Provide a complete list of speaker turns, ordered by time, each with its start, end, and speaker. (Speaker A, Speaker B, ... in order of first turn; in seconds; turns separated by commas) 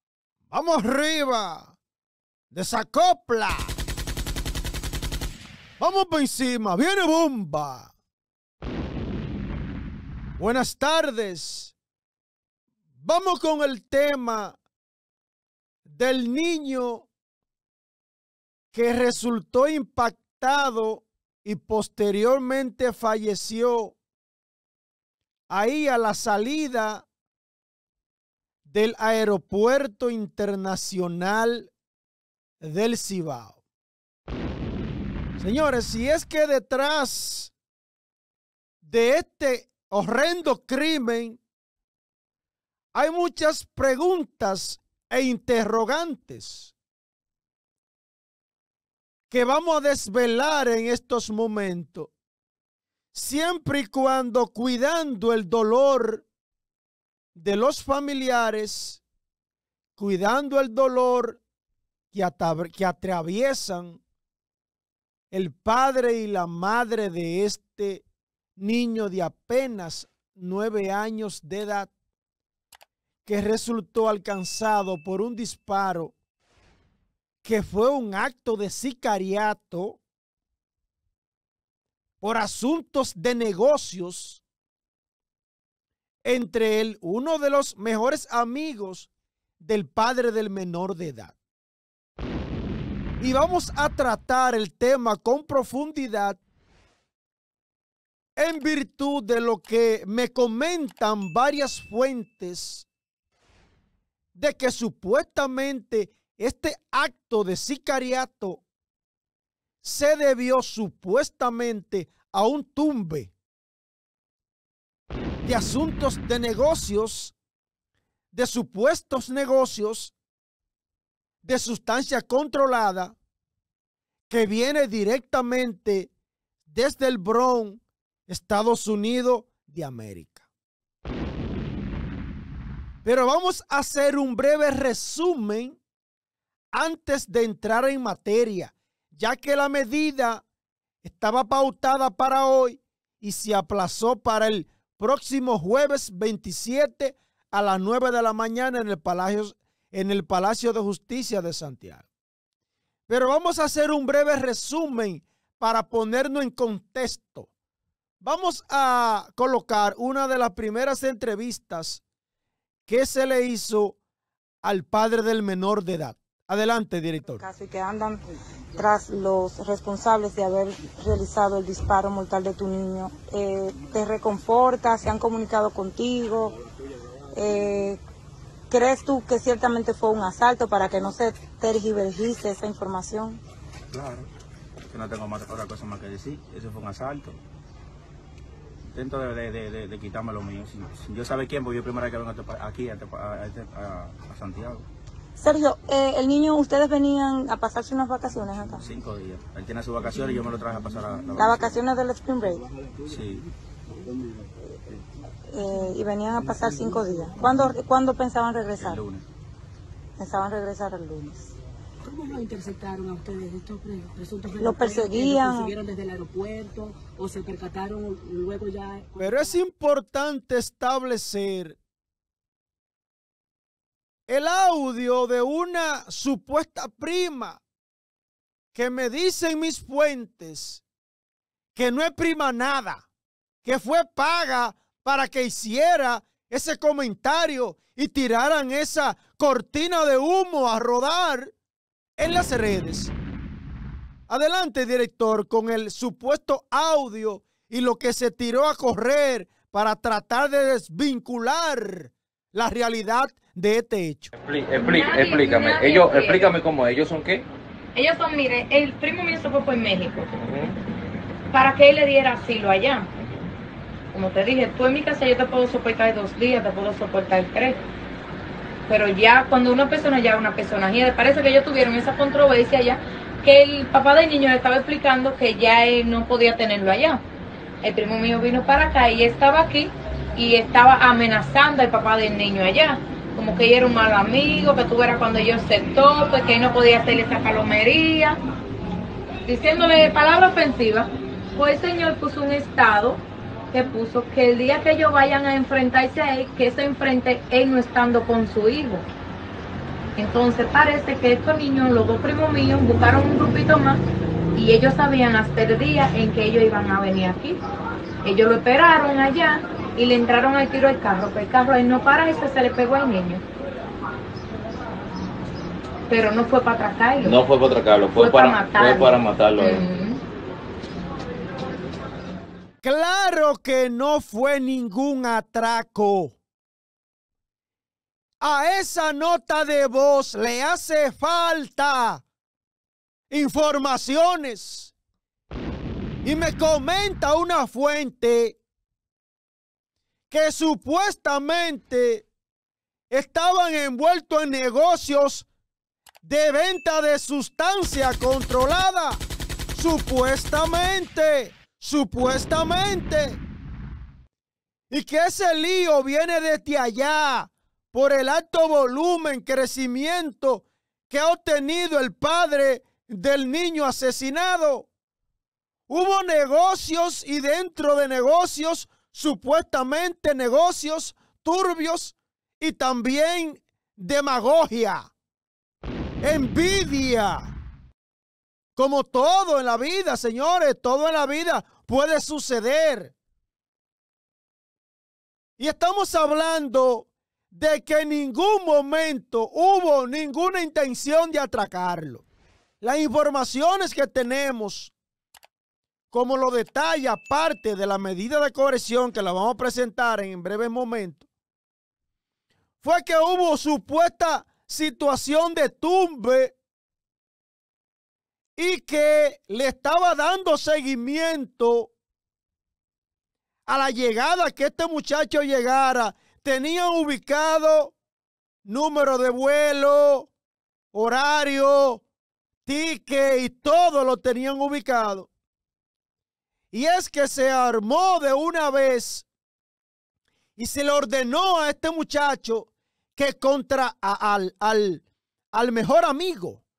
Speaker A: 0.5-1.8, Speaker A: 2.5-3.7, Speaker A: 5.8-7.9, Speaker A: 10.4-11.7, Speaker A: 13.0-14.6, Speaker A: 15.8-17.1, Speaker A: 18.7-23.9, Speaker A: 25.5-27.0, Speaker A: 28.6-31.7, Speaker A: 32.6-33.6, Speaker A: 35.4-37.5, Speaker A: 38.8-41.4, Speaker A: 42.9-46.7, Speaker A: 49.3-52.1, Speaker A: 53.1-56.2, Speaker A: 57.3-59.0, Speaker A: 60.0-61.4, Speaker A: 62.1-64.0, Speaker A: 65.3-68.0, Speaker A: 68.6-71.9, Speaker A: 73.2-76.1, Speaker A: 77.4-80.0, Speaker A: 82.2-84.4, Speaker A: 86.2-89.1, Speaker A: 89.6-91.3, Speaker A: 93.2-96.4, Speaker A: 98.4-102.8, Speaker A: 104.3-108.6, Speaker A: 109.8-113.3, Speaker A: 115.4-117.3, Speaker A: 118.3-120.1, Speaker A: 121.4-123.2, Speaker A: 124.3-126.1, Speaker A: 126.6-130.5, Speaker A: 133.0-135.8, Speaker A: 136.7-140.4, Speaker A: 141.0-152.1, Speaker A: 153.1-157.5, Speaker A: 158.2-162.0, Speaker A: 162.9-164.0, Speaker A: 164.6-167.4, Speaker B: 167.3-168.2, Speaker B: 168.8-176.6, Speaker B: 177.3-178.0, Speaker B: 178.7-183.4, Speaker C: 183.9-184.3, Speaker C: 184.9-187.4, Speaker C: 188.9-194.9, Speaker B: 195.4-198.8, Speaker C: 198.4-201.8, Speaker B: 201.3-202.7, Speaker C: 203.1-203.5, Speaker B: 205.5-209.0, Speaker C: 208.8-209.3, Speaker B: 210.2-211.5, Speaker D: 212.1-219.1, Speaker B: 214.6-215.8, Speaker A: 219.2-221.8, Speaker A: 224.3-227.6, Speaker A: 228.7-230.8, Speaker A: 231.7-233.1, Speaker A: 233.6-241.5, Speaker A: 242.2-243.1, Speaker A: 244.3-254.3, Speaker E: 254.4-257.4, Speaker F: 254.7-256.6, Speaker F: 257.9-260.4, Speaker E: 260.4-260.8, Speaker F: 261.5-263.1, Speaker E: 263.2-263.5, Speaker F: 264.1-267.8, Speaker F: 268.9-277.2, Speaker F: 277.8-288.4, Speaker F: 289.4-299.0, Speaker F: 300.2-304.0, Speaker F: 304.5-307.6, Speaker F: 308.2-313.4, Speaker F: 316.1-317.4, Speaker E: 317.2-319.9, Speaker F: 318.1-320.2, Speaker A: 322.8-326.4, Speaker A: 328.4-332.2, Speaker A: 333.3-334.9, Speaker A: 336.2-338.6, Speaker A: 340.3-342.2, Speaker A: 343.1-345.5, Speaker A: 346.2-349.2, Speaker A: 349.7-353.4, Speaker A: 354.9-364.9, Speaker A: 365.9-375.1, Speaker A: 376.2-377.5, Speaker A: 378.8-383.1, Speaker A: 385.6-392.2, Speaker A: 392.8-394.9, Speaker A: 396.1-401.2, Speaker A: 402.8-406.6, Speaker A: 408.6-411.9, Speaker A: 413.7-417.9, Speaker A: 418.6-420.3, Speaker A: 420.9-422.0, Speaker A: 422.6-425.3, Speaker A: 426.7-429.3, Speaker A: 430.6-436.6